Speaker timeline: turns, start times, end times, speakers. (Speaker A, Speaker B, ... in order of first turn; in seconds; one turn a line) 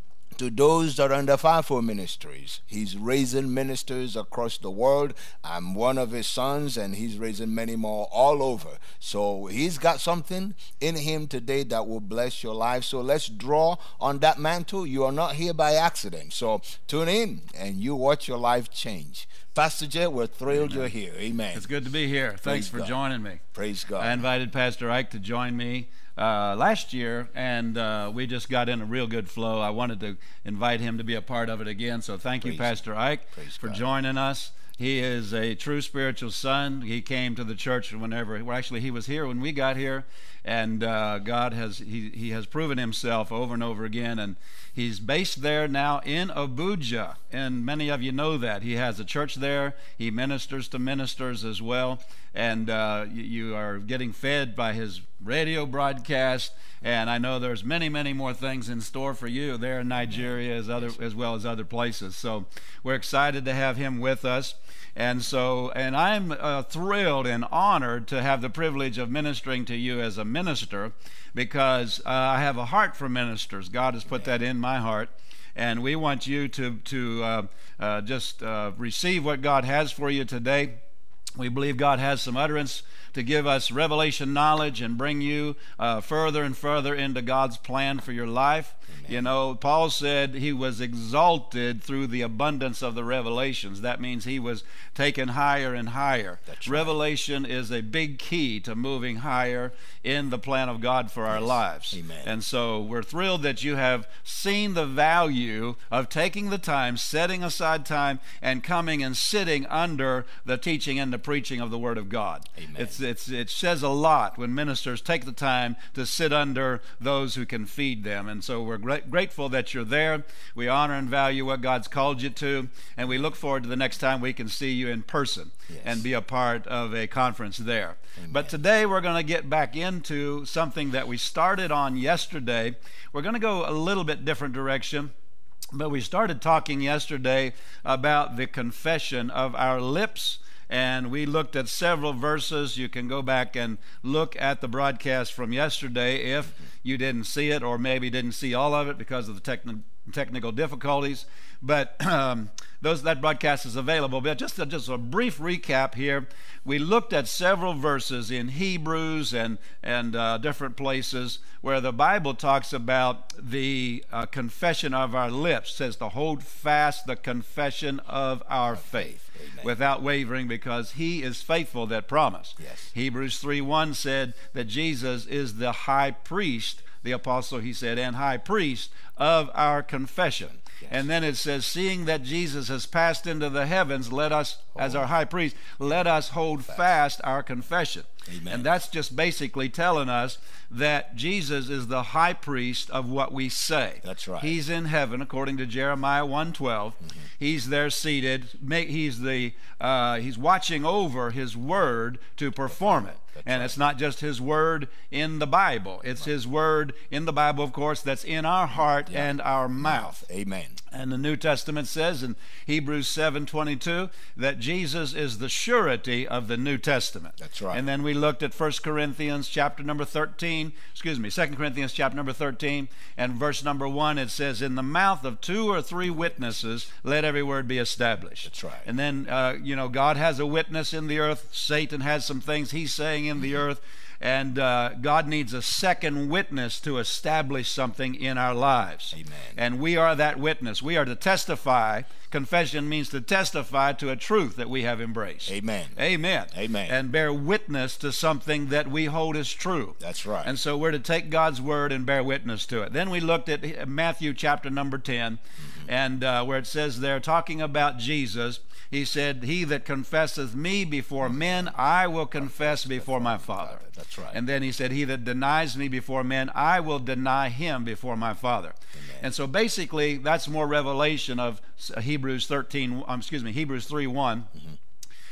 Speaker A: 0.4-21.6
Speaker B: 20.5-20.9
Speaker B: 21.5-23.4
Speaker A: 22.4-22.9
Speaker A: 23.5-24.2
Speaker B: 24.0-80.8
Speaker A: 32.4-32.8
Speaker A: 33.4-33.8
Speaker B: 81.3-135.1
Speaker A: 96.5-96.9
Speaker A: 101.3-102.3
Speaker A: 112.6-113.0
Speaker A: 125.7-126.0
Speaker A: 128.2-128.5
Speaker B: 135.7-210.2
Speaker A: 169.0-169.7
Speaker A: 172.6-172.8
Speaker A: 188.3-188.7
Speaker A: 194.0-194.5
Speaker A: 202.8-203.8
Speaker A: 209.8-210.8
Speaker B: 210.9-274.5
Speaker A: 217.4-217.8
Speaker A: 228.4-228.8
Speaker A: 239.1-239.6
Speaker A: 245.4-246.0
Speaker A: 246.5-246.9
Speaker A: 250.0-250.5
Speaker A: 262.4-264.4